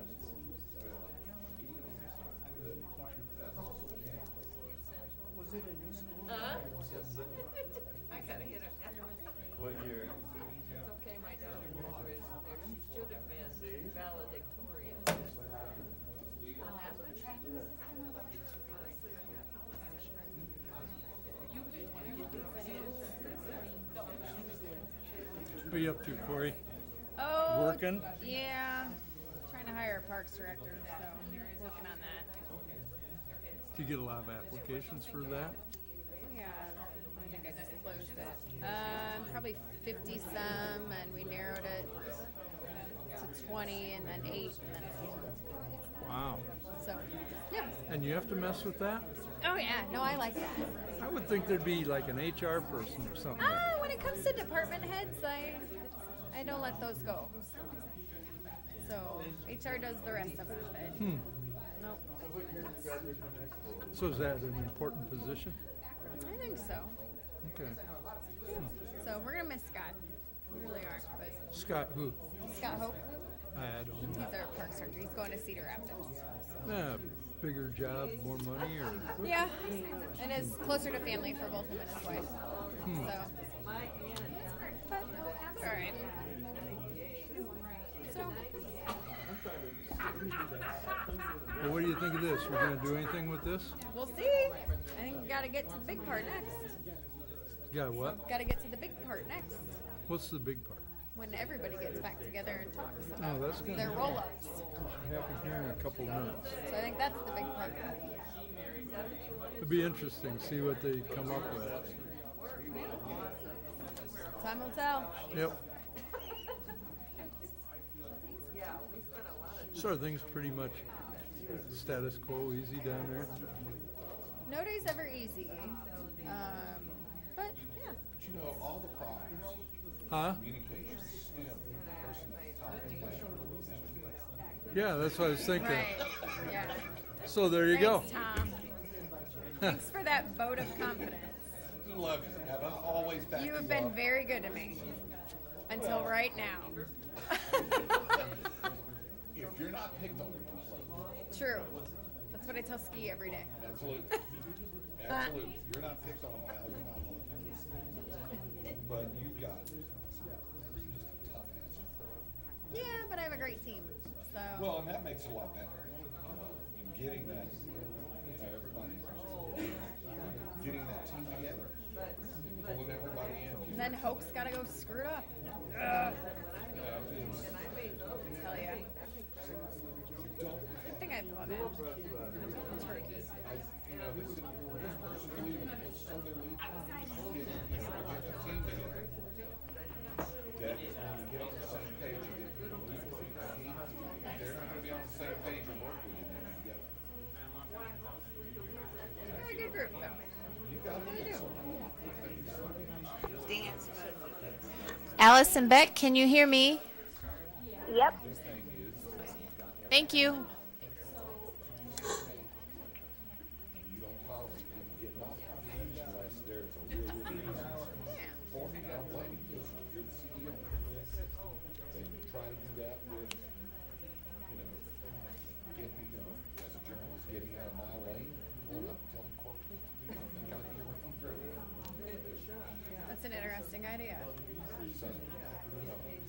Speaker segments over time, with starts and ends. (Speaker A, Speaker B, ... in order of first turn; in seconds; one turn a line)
Speaker A: 0.8-1.9
Speaker A: 2.5-2.8
Speaker A: 3.3-4.3
Speaker B: 25.6-26.6
Speaker C: 27.2-32.3
Speaker B: 27.4-28.1
Speaker B: 33.7-35.6
Speaker C: 36.2-41.9
Speaker C: 43.2-45.2
Speaker B: 46.0-46.4
Speaker C: 46.8-47.8
Speaker B: 47.9-49.1
Speaker C: 49.4-50.7
Speaker B: 51.0-53.6
Speaker C: 53.4-55.7
Speaker C: 56.3-57.4
Speaker C: 58.8-61.0
Speaker B: 61.0-61.2
Speaker B: 63.9-65.6
Speaker C: 66.2-67.0
Speaker B: 67.5-67.8
Speaker C: 69.0-70.0
Speaker C: 70.5-71.6
Speaker B: 71.5-72.2
Speaker C: 72.4-73.0
Speaker B: 73.5-74.2
Speaker C: 74.1-76.7
Speaker B: 76.6-79.2
Speaker C: 79.2-79.6
Speaker C: 80.1-82.3
Speaker B: 82.8-83.1
Speaker C: 82.9-83.3
Speaker C: 84.9-86.0
Speaker C: 88.1-88.4
Speaker B: 91.6-93.8
Speaker C: 93.9-96.7
Speaker B: 97.7-98.2
Speaker C: 98.0-99.7
Speaker B: 100.1-100.8
Speaker C: 101.2-104.6
Speaker B: 103.2-104.2
Speaker B: 104.8-106.5
Speaker C: 106.7-107.9
Speaker B: 109.6-111.8
Speaker C: 114.4-115.1
Speaker B: 119.7-120.8
Speaker B: 121.7-123.3
Speaker C: 124.5-127.6
Speaker A: 128.2-129.6
Speaker B: 130.1-130.4
Speaker A: 130.2-134.2
Speaker B: 134.7-136.0
Speaker C: 135.6-136.8
Speaker A: 136.0-136.6
Speaker B: 137.3-138.1
Speaker C: 137.7-138.6
Speaker C: 139.6-141.3
Speaker A: 141.8-144.9
Speaker C: 143.3-144.8
Speaker C: 145.7-146.8
Speaker A: 145.7-146.2
Speaker C: 147.3-147.8
Speaker A: 149.3-151.7
Speaker C: 151.3-151.7
Speaker C: 152.3-153.6
Speaker A: 153.6-154.2
Speaker A: 155.0-157.6
Speaker C: 155.1-155.3
Speaker A: 158.8-162.2
Speaker C: 162.7-164.8
Speaker A: 164.5-167.6
Speaker A: 168.3-169.9
Speaker A: 170.6-171.7
Speaker A: 172.5-174.1
Speaker C: 173.7-176.2
Speaker A: 176.8-177.7
Speaker C: 178.4-178.9
Speaker A: 180.2-181.1
Speaker C: 180.8-181.8
Speaker C: 182.6-183.3
Speaker A: 183.4-189.1
Speaker A: 190.5-196.9
Speaker A: 199.2-199.8
Speaker C: 199.3-200.2
Speaker A: 200.6-202.9
Speaker C: 200.9-201.5
Speaker A: 203.5-203.8
Speaker D: 205.2-206.8
Speaker D: 207.9-208.2
Speaker A: 208.0-210.4
Speaker D: 209.9-210.5
Speaker A: 211.8-212.5
Speaker A: 213.7-220.8
Speaker C: 218.1-218.3
Speaker A: 221.9-223.4
Speaker A: 224.5-231.6
Speaker C: 233.1-234.3
Speaker A: 234.9-236.2